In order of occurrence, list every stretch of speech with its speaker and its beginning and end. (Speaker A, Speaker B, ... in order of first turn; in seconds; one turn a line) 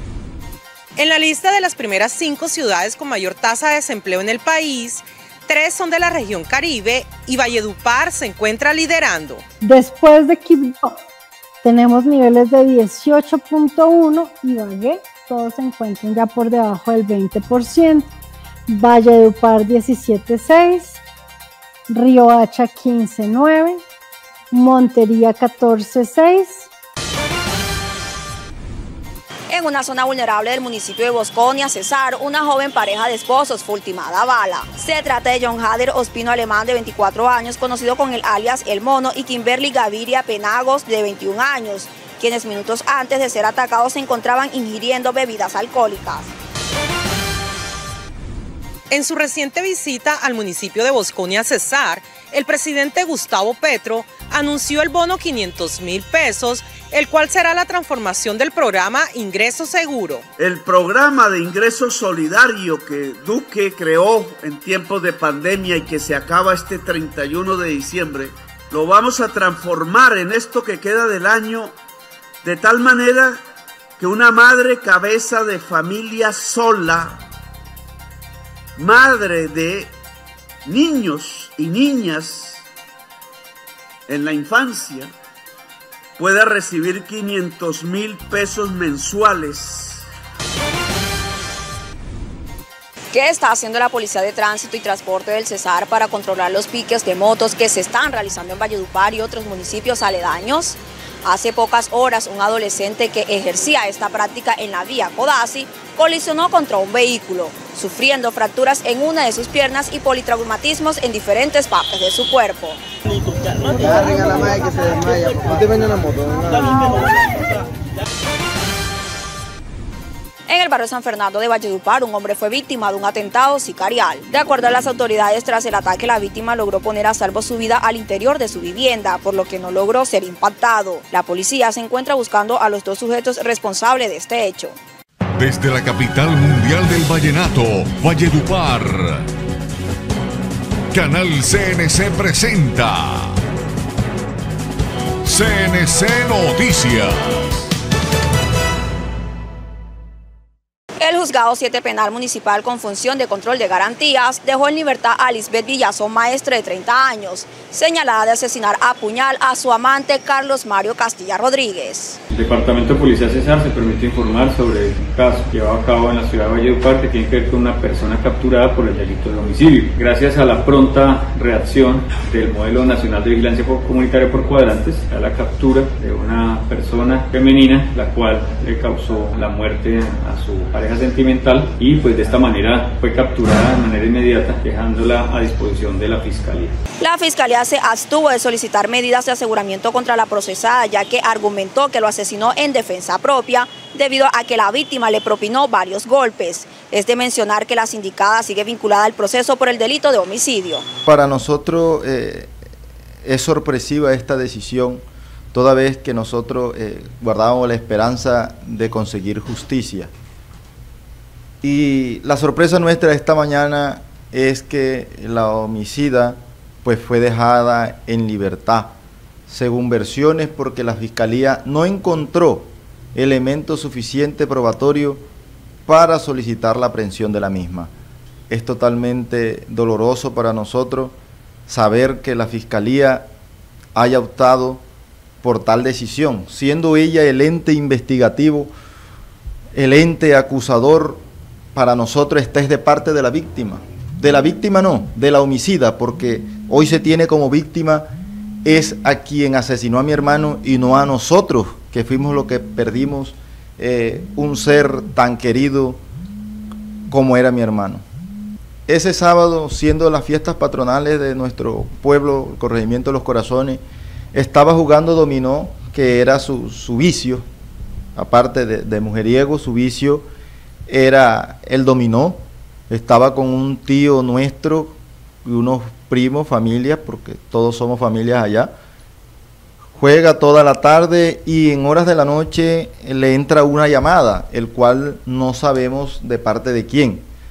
Speaker A: 0.9-9.4
Speaker B: 9.6-11.0
Speaker B: 11.6-18.1
Speaker B: 18.7-21.0
Speaker B: 21.9-23.8
Speaker B: 24.5-26.7
Speaker C: 29.5-46.3
Speaker A: 48.9-60.3
Speaker D: 60.4-71.7
Speaker D: 72.4-73.4
Speaker D: 74.0-77.2
Speaker D: 78.8-79.9
Speaker D: 80.7-82.6
Speaker D: 84.1-85.1
Speaker D: 86.2-90.0
Speaker C: 93.1-112.8
Speaker C: 120.5-134.8
Speaker E: 135.4-139.3
Speaker E: 140.9-143.4
Speaker E: 145.2-147.5
Speaker C: 151.0-162.2
Speaker F: 162.3-186.8
Speaker C: 187.0-200.8
Speaker G: 201.0-202.5
Speaker G: 203.2-210.1
Speaker G: 211.6-218.9
Speaker G: 219.5-225.2
Speaker G: 225.8-227.9
Speaker G: 228.5-231.1
Speaker G: 231.7-233.3
Speaker G: 233.9-234.8
Speaker G: 235.4-238.7
Speaker G: 239.7-241.2
Speaker G: 241.7-248.1
Speaker G: 248.6-256.0
Speaker G: 257.1-258.0
Speaker G: 258.9-263.8
Speaker G: 264.3-267.4
Speaker G: 268.1-270.2
Speaker G: 270.9-278.7
Speaker G: 279.9-287.2